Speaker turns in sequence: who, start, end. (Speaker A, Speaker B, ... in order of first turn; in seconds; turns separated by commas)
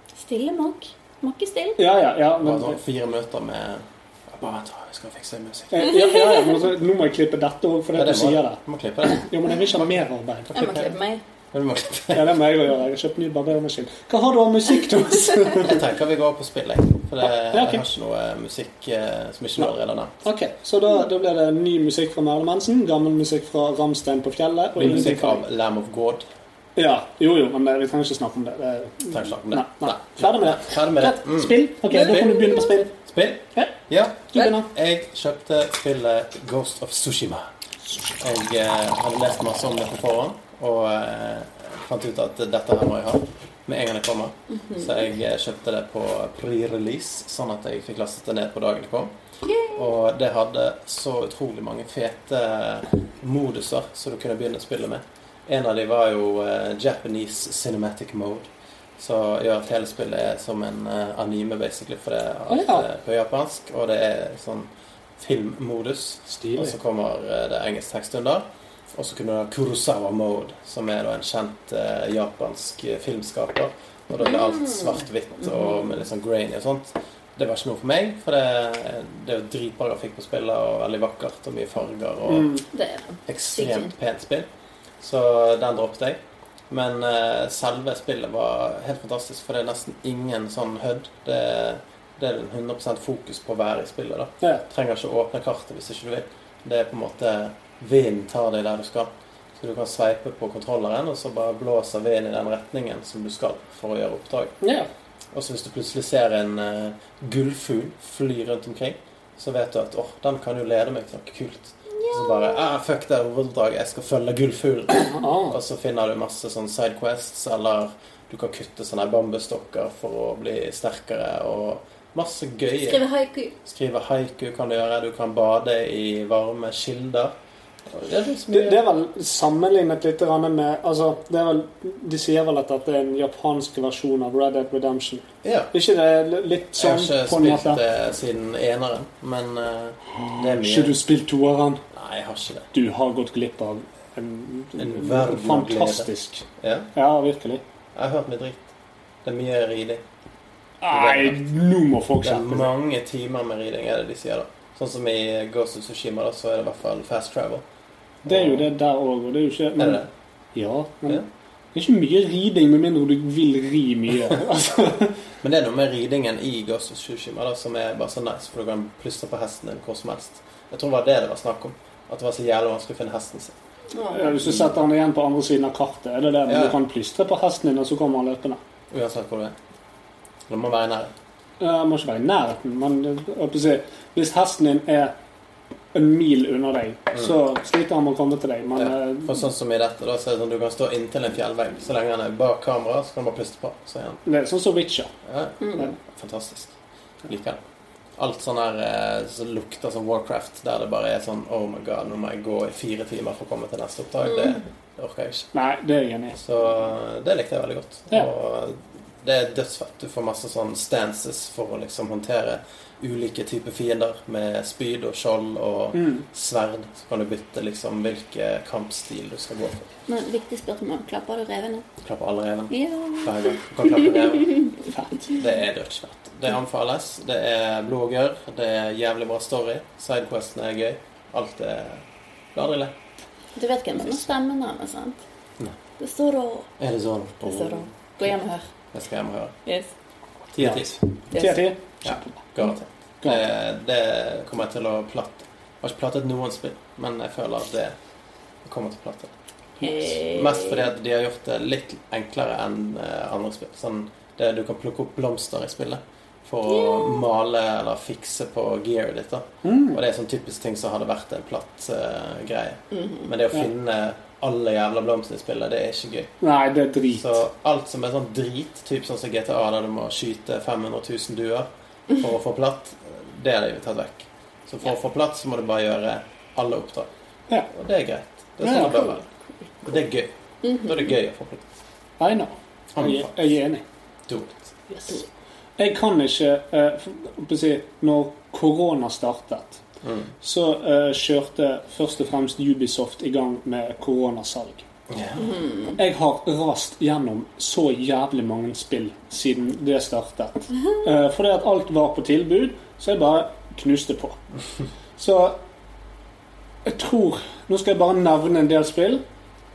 Speaker A: 0.2-1.8, Speaker B: 1.8-2.8, Speaker C: 2.4-6.0, Speaker B: 5.7-10.6, Speaker C: 7.9-9.2, Speaker C: 10.5-10.9, Speaker A: 10.5-11.2, Speaker C: 11.5-12.4, Speaker B: 12.1-15.8, Speaker C: 15.6-20.2, Speaker B: 17.5-17.9, Speaker B: 20.2-25.4, Speaker C: 24.8-26.2, Speaker B: 26.8-32.9, Speaker C: 29.1-37.5, Speaker B: 34.3-34.7, Speaker C: 38.2-49.1, Speaker A: 44.5-45.0, Speaker A: 49.4-49.9, Speaker C: 49.7-82.5, Speaker B: 62.5-62.8, Speaker B: 66.4-66.7, Speaker A: 74.2-75.9, Speaker B: 82.3-82.6, Speaker A: 82.7-83.9, Speaker C: 83.3-84.5, Speaker C: 85.0-86.2, Speaker C: 86.7-104.5, Speaker B: 104.6-104.9, Speaker C: 105.3-123.0, Speaker A: 111.9-112.7, Speaker B: 115.1-115.6, Speaker A: 122.8-123.5, Speaker C: 123.6-127.3, Speaker C: 127.9-128.8, Speaker B: 128.5-137.8, Speaker C: 135.4-135.7, Speaker C: 136.8-141.0, Speaker B: 140.4-141.8, Speaker C: 141.9-142.7, Speaker B: 142.7-147.6, Speaker C: 144.8-146.9, Speaker C: 147.9-148.7, Speaker C: 149.2-150.0, Speaker B: 150.8-152.7, Speaker C: 150.9-151.4, Speaker C: 152.2-157.6, Speaker C: 158.2-158.7, Speaker B: 158.2-160.0, Speaker C: 159.8-160.1, Speaker B: 160.5-165.2, Speaker C: 165.4-173.5, Speaker A: 173.9-174.4, Speaker B: 174.1-178.6, Speaker C: 174.4-174.8, Speaker C: 176.4-176.8, Speaker C: 178.9-179.5, Speaker C: 180.5-181.1, Speaker B: 181.6-185.1, Speaker B: 185.9-189.3, Speaker C: 188.7-194.2, Speaker B: 194.2-195.1, Speaker C: 195.2-196.7, Speaker A: 195.6-195.9, Speaker C: 197.3-197.6, Speaker C: 198.2-205.5, Speaker A: 204.3-204.6, Speaker B: 205.5-206.4, Speaker C: 206.4-219.9, Speaker B: 215.9-216.2, Speaker A: 220.1-221.8, Speaker C: 222.0-224.7, Speaker A: 222.7-224.7, Speaker B: 224.8-225.3, Speaker C: 225.3-232.9, Speaker A: 233.6-235.2, Speaker A: 236.0-236.7, Speaker C: 236.8-238.3, Speaker A: 237.4-238.6, Speaker C: 238.9-239.5, Speaker C: 240.5-241.0, Speaker B: 240.6-242.4, Speaker A: 241.3-241.6, Speaker C: 242.0-247.9, Speaker C: 248.6-266.3, Speaker A: 249.8-250.9, Speaker A: 256.6-257.2, Speaker B: 259.6-260.0, Speaker A: 262.9-263.3, Speaker B: 266.4-267.3, Speaker C: 267.1-277.1, Speaker C: 277.7-279.2, Speaker B: 278.6-279.1, Speaker C: 279.8-281.6, Speaker A: 280.6-280.9, Speaker B: 282.2-283.8, Speaker C: 282.9-283.5, Speaker C: 284.3-284.7, Speaker B: 284.9-285.2, Speaker B: 285.8-289.8, Speaker C: 290.0-290.3, Speaker B: 290.4-294.8, Speaker C: 295.1-295.5, Speaker A: 295.4-296.0, Speaker B: 296.0-304.4, Speaker B: 305.2-305.6, Speaker B: 306.8-309.2